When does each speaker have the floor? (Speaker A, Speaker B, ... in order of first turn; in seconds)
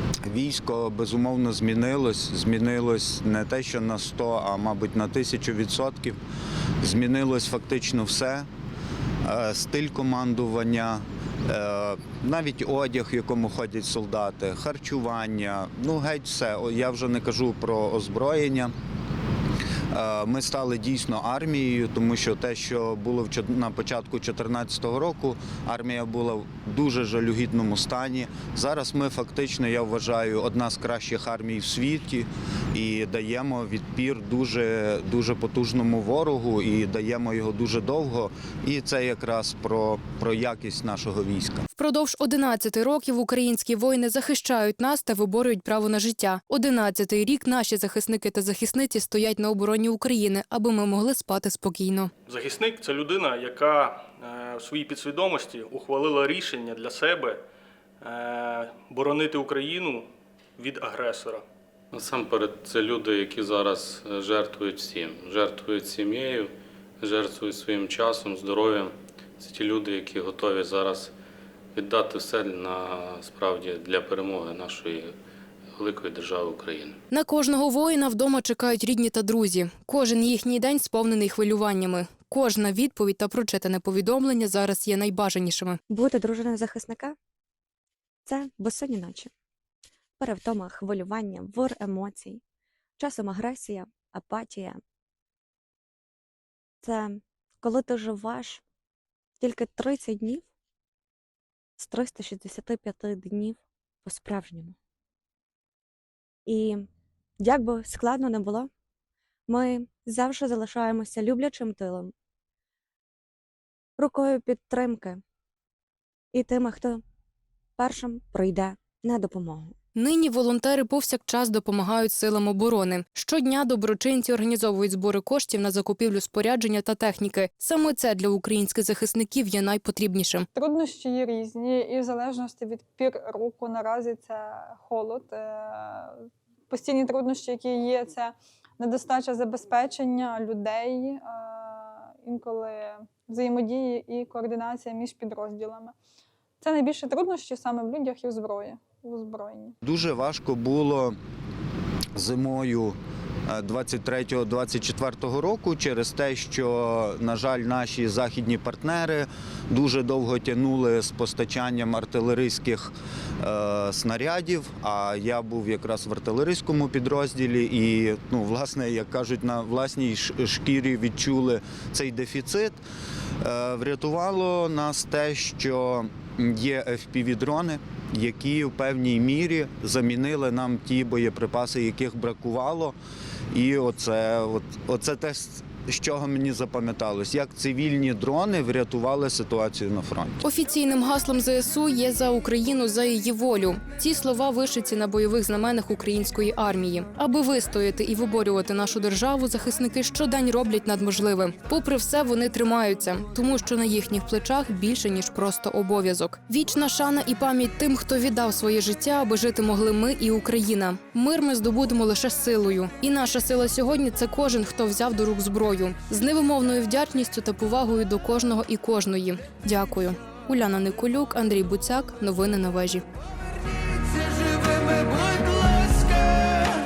Speaker A: 0.3-6.2, 6.8-8.5, 9.2-18.7, 19.9-41.6, 149.8-151.2, 152.1-152.9, 153.5-172.8, 173.4-182.9, 183.5-190.4
Speaker B: 41.7-52.1, 77.1-85.8, 119.9-130.5, 190.4-223.0
Speaker C: 52.2-57.4, 58.0-61.5
Speaker D: 61.9-71.1, 71.7-75.1, 75.7-77.0
Speaker E: 85.9-87.2, 88.2-89.3, 90.2-92.4, 93.0-94.8, 96.8-98.6, 99.4-100.5, 101.8-104.8, 106.5-106.9, 107.4-108.7, 109.5-112.1, 114.0-115.2, 116.3-117.0, 117.8-119.7
Speaker F: 130.6-136.2, 136.7-145.9, 146.6-149.7, 224.4-226.5